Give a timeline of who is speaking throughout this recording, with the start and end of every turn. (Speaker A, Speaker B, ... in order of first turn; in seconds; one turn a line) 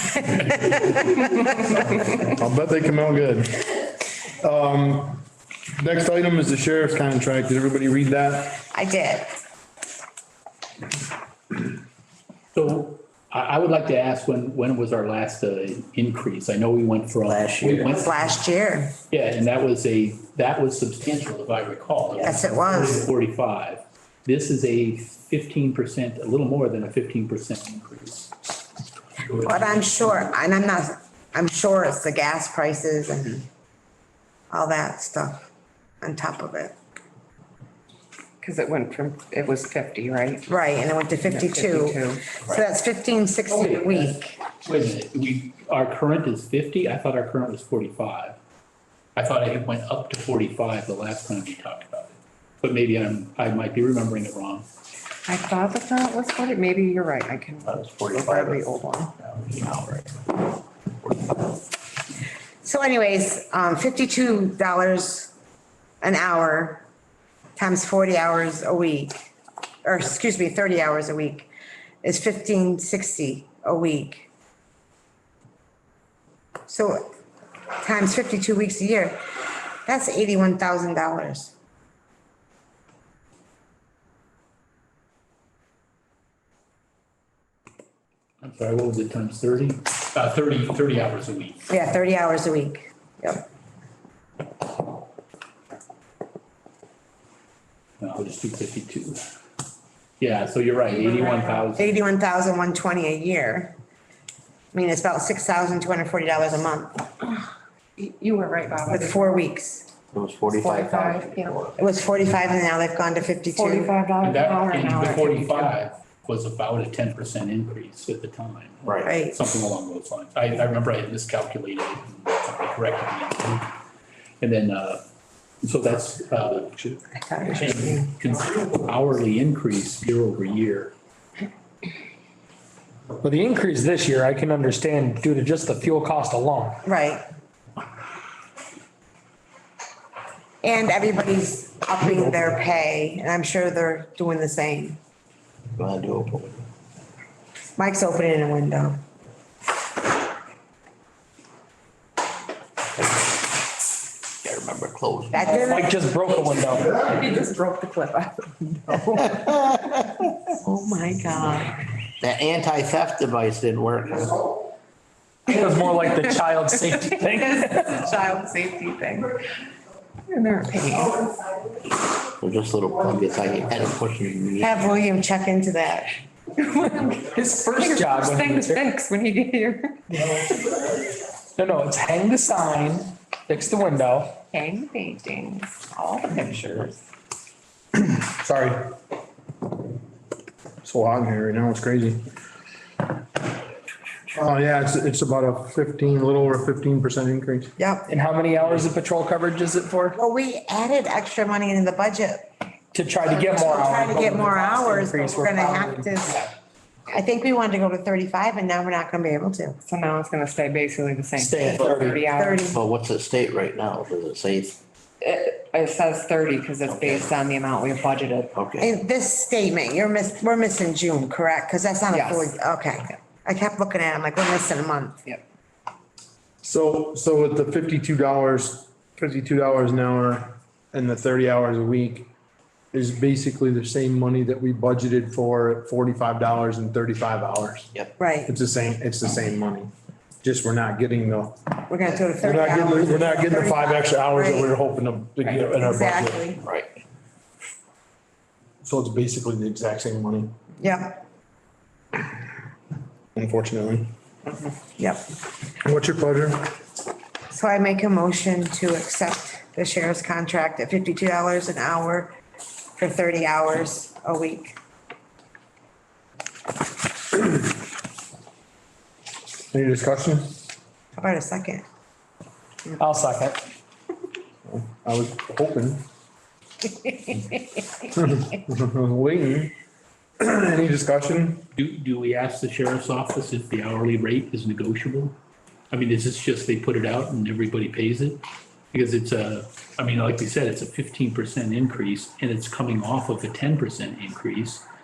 Speaker A: 0.2-0.9
Speaker B: 0.6-1.4
Speaker C: 2.0-3.7
Speaker C: 4.4-5.2
Speaker C: 5.8-8.6
Speaker B: 8.6-9.3
Speaker A: 12.5-18.3
Speaker D: 17.3-17.9
Speaker B: 17.8-18.9
Speaker A: 19.1-28.3
Speaker B: 22.2-23.0
Speaker A: 29.2-30.3
Speaker B: 29.4-33.5
Speaker B: 34.5-35.5
Speaker B: 36.0-36.7
Speaker E: 38.4-40.5
Speaker B: 40.5-44.4
Speaker E: 41.3-42.2
Speaker A: 43.5-48.4
Speaker A: 49.1-54.7
Speaker E: 55.3-59.1
Speaker D: 57.7-58.6
Speaker D: 59.2-60.5
Speaker D: 61.0-61.6
Speaker B: 62.6-65.3
Speaker B: 66.0-66.8
Speaker B: 67.5-69.2
Speaker B: 69.8-71.5
Speaker B: 72.0-74.3
Speaker B: 76.7-77.1
Speaker B: 77.8-79.2
Speaker B: 79.8-81.5
Speaker A: 88.4-91.7
Speaker B: 91.7-93.5
Speaker A: 98.0-99.2
Speaker A: 100.2-102.1
Speaker B: 101.7-103.7
Speaker B: 104.7-107.1
Speaker E: 107.3-109.4
Speaker B: 108.9-109.9
Speaker D: 110.1-111.8
Speaker E: 110.6-111.7
Speaker B: 111.8-113.9
Speaker E: 113.5-115.7
Speaker A: 114.2-123.7
Speaker D: 118.8-119.2
Speaker B: 119.0-119.3
Speaker A: 124.4-125.0
Speaker A: 125.6-126.7
Speaker C: 126.7-127.0
Speaker B: 127.3-127.8
Speaker A: 127.5-130.9
Speaker F: 133.2-136.8
Speaker B: 136.8-137.2
Speaker B: 140.6-145.0
Speaker D: 145.8-146.6
Speaker B: 147.8-149.0
Speaker D: 154.4-155.6
Speaker B: 155.3-155.9
Speaker E: 155.5-155.8
Speaker F: 155.5-157.0
Speaker E: 156.8-159.5
Speaker D: 159.3-159.8
Speaker B: 160.6-161.8
Speaker D: 162.2-164.6
Speaker F: 165.5-168.0
Speaker E: 166.9-169.4
Speaker E: 170.3-171.2
Speaker D: 172.4-174.9
Speaker B: 174.6-176.1
Speaker E: 176.6-180.4
Speaker F: 177.2-178.8
Speaker F: 181.6-184.4
Speaker E: 184.5-187.0
Speaker C: 187.9-188.9
Speaker C: 190.8-192.2
Speaker C: 194.3-197.8
Speaker B: 197.8-198.1
Speaker F: 198.1-200.2
Speaker B: 200.2-202.5
Speaker F: 202.9-206.5
Speaker B: 203.3-206.5
Speaker B: 207.1-209.8
Speaker E: 209.8-212.7
Speaker F: 211.4-212.2
Speaker D: 211.7-212.1
Speaker B: 212.2-212.8
Speaker D: 212.7-214.8
Speaker E: 215.2-218.5
Speaker D: 216.8-217.3
Speaker D: 218.5-218.9
Speaker B: 218.8-225.2
Speaker E: 222.1-222.5
Speaker C: 226.6-232.3
Speaker C: 232.9-237.9
Speaker B: 238.2-238.5
Speaker C: 238.4-239.9
Speaker C: 240.4-241.7
Speaker B: 241.9-244.7
Speaker C: 242.4-246.5
Speaker B: 245.5-246.6
Speaker D: 246.6-246.9
Speaker C: 248.8-250.5
Speaker B: 250.8-251.2
Speaker C: 253.3-254.1
Speaker B: 255.0-255.2
Speaker C: 255.8-256.8
Speaker B: 257.5-262.3
Speaker B: 263.0-264.8
Speaker C: 269.7-270.6
Speaker B: 271.1-271.8
Speaker F: 273.0-273.6
Speaker C: 274.6-276.1
Speaker C: 278.1-279.7
Speaker C: 280.4-281.7
Speaker A: 281.8-285.4
Speaker A: 285.9-294.8